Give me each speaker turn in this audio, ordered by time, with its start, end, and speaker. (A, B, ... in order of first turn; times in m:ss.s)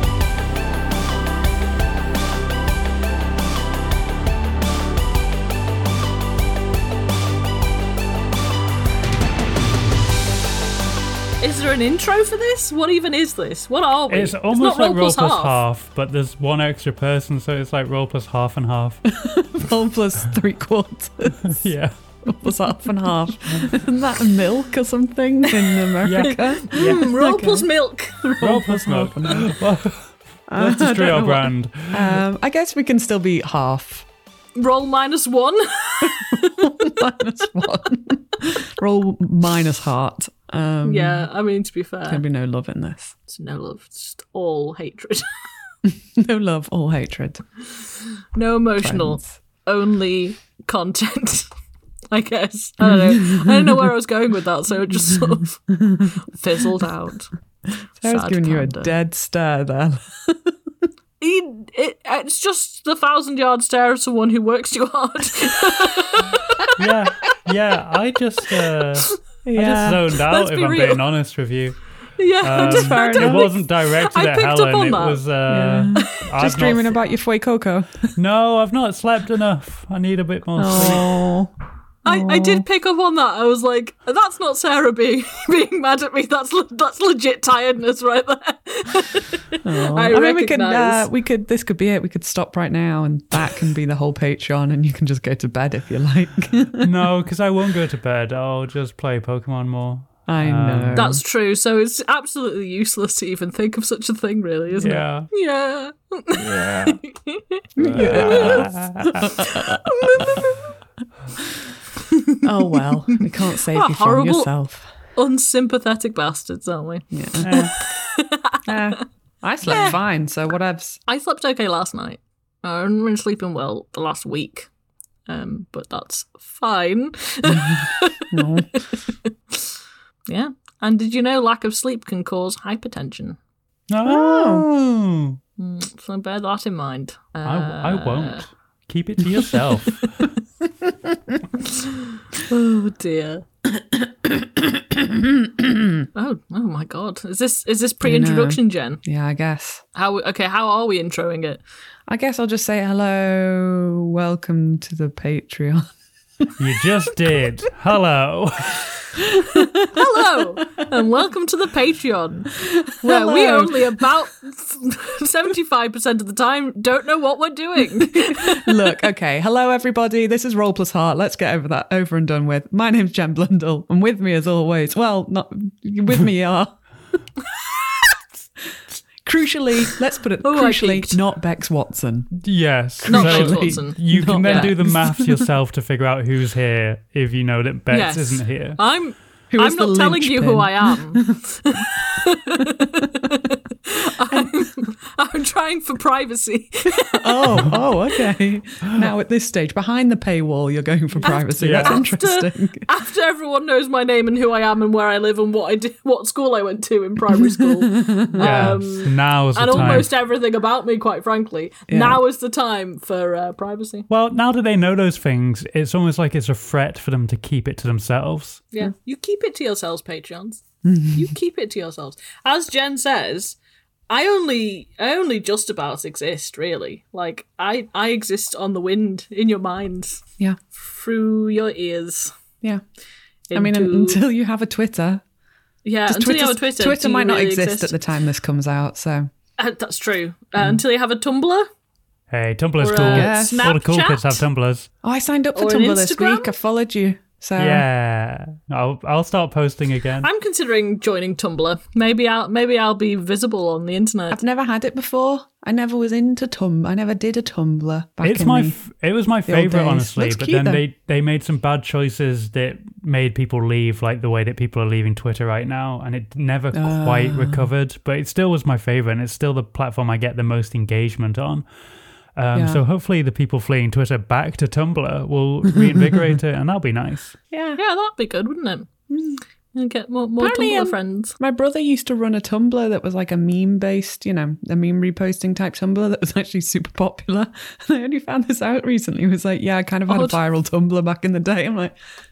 0:11.4-0:15.6 A
0:14.1-0:19.0 B
0:19.1-0:21.7 C
0:21.4-0:22.5 B
0:22.2-0:27.7 C
0:26.0-0:27.1 B
0:26.2-0:28.6 A
0:28.4-0:29.5 C
0:28.4-0:32.2 B
0:30.5-0:34.0 C
0:34.6-0:37.1 A
0:36.0-0:41.3 C
0:40.8-0:42.2 A
0:42.1-0:43.2 C
0:43.3-0:45.3 A
0:45.8-0:47.4 C
0:48.3-0:51.5 A
0:48.8-0:49.4 C
0:52.1-0:57.3 A
0:52.8-0:53.9 C
0:55.0-0:56.2 C
0:58.0-1:00.5 C
0:58.0-0:58.9 A
1:01.2-1:07.3 A
1:06.8-1:11.8 B
1:08.7-1:09.1 A
1:09.4-1:10.1 C
1:10.1-1:11.0 A
1:12.2-1:15.2 A
1:12.4-1:17.0 B
1:12.6-1:13.5 C
1:15.5-1:18.2 C
1:18.2-1:21.1 B
1:20.6-1:21.5 C
1:22.0-1:31.1 A
1:22.0-1:22.6 C
1:29.6-1:36.9 C
1:36.8-1:41.2 B
1:40.3-1:41.2 C
1:40.9-1:48.7 A
1:44.8-1:45.3 B
1:46.3-1:47.0 B
1:47.8-1:50.5 C
1:47.8-1:49.4 B
1:49.2-1:50.7 A
1:52.1-1:52.4 A
1:52.4-1:54.9 C
1:53.7-1:54.5 A
1:55.2-1:58.8 A
1:57.1-1:57.6 C
1:57.4-1:57.7 B
1:58.6-2:01.0 C
1:59.6-2:00.0 A
2:01.1-2:04.7 A
2:05.3-2:08.4 A
2:07.5-2:08.9 C
2:10.3-2:13.4 A
2:13.9-2:15.4 B
2:14.0-2:14.6 C
2:15.6-2:18.4 A
2:17.4-2:20.3 B
2:19.5-2:20.2 A
2:21.5-2:23.4 A
2:23.7-2:26.0 C
2:26.1-2:29.0 A
2:28.0-2:29.8 C
2:29.9-2:31.6 A
2:32.1-2:35.9 C
2:36.6-2:39.0 B
2:39.1-2:40.9 C
2:39.8-2:49.0 A
2:42.6-2:44.1 C
2:48.0-2:56.8 C
2:59.2-3:02.3 C
3:00.4-3:01.2 A
3:02.4-3:08.8 B
3:03.0-3:05.5 C
3:03.1-3:04.7 A
3:07.9-3:18.2 A
3:09.5-3:11.4 C
3:12.6-3:13.2 C
3:16.9-3:22.9 C
3:21.2-3:34.1 A
3:21.6-3:22.0 B
3:27.6-3:28.8 C
3:28.4-3:30.1 B
3:29.7-3:30.1 C
3:31.9-3:32.2 C
3:34.1-3:38.6 B
3:38.7-3:40.6 A
3:40.8-3:41.3 C
3:41.1-3:43.6 A
3:44.1-3:50.2 A
3:50.8-3:52.3 A
3:53.5-3:54.2 A
3:53.5-3:55.2 C
3:55.8-3:57.9 A
3:56.1-3:59.3 C
3:59.6-4:01.7 A
4:02.3-4:04.9 B
4:02.8-4:04.4 A
4:03.0-4:03.7 C
4:05.0-4:07.8 C
4:05.5-4:06.5 A
4:07.6-4:10.3 B
4:10.2-4:14.4 A
4:14.3-4:18.8 C
4:18.2-4:31.6 B
4:19.4-4:20.8 C
4:26.7-4:27.7 C
4:32.3-4:37.4 B
4:32.5-4:32.8 C
4:35.7-4:36.0 C
4:37.5-4:37.8 C
4:37.8-4:38.9 A
4:39.1-4:39.4 C
4:39.7-4:41.3 A
4:40.4-4:52.0 C
4:50.1-4:50.4 A